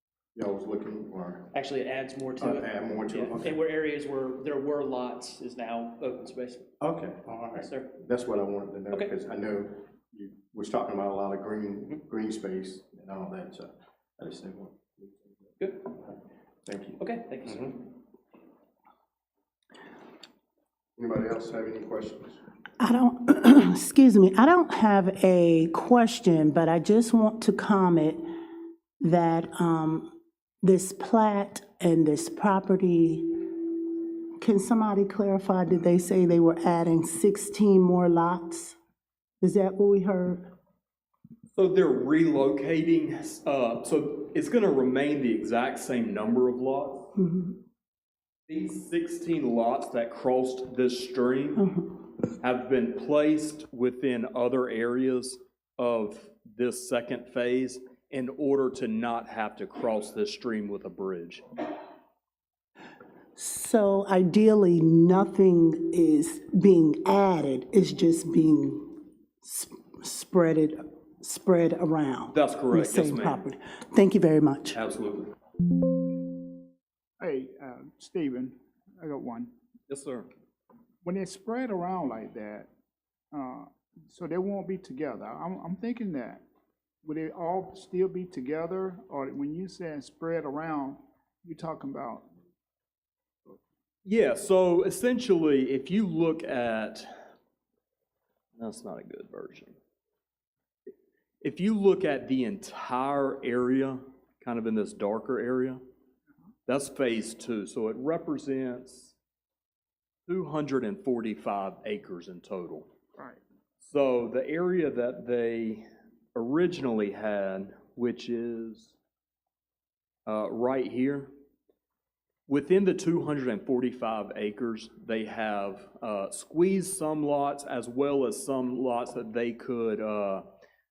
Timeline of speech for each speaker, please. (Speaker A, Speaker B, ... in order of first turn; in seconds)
Speaker A: 0.3-1.5, 2.4-3.6, 6.8-17.7, 21.0-22.4
Speaker B: 1.5-6.7, 7.5-7.9, 17.0-17.7
Speaker C: 22.8-28.2, 29.0-33.8, 34.4-38.8, 39.4-40.5, 47.1-47.6, 51.5-52.0, 63.4-74.8
Speaker D: 41.5-47.1, 48.5-51.6, 52.4-61.4, 72.3-73.4, 74.7-75.3, 79.9-80.3, 94.0-97.1, 98.5-99.8, 101.4-105.8, 106.7-109.1, 110.3-112.9, 113.8-115.8, 116.3-119.0, 120.2-121.3, 122.5-130.5
Speaker E: 77.2-79.5, 81.0-82.7, 83.3-86.4, 87.0-92.2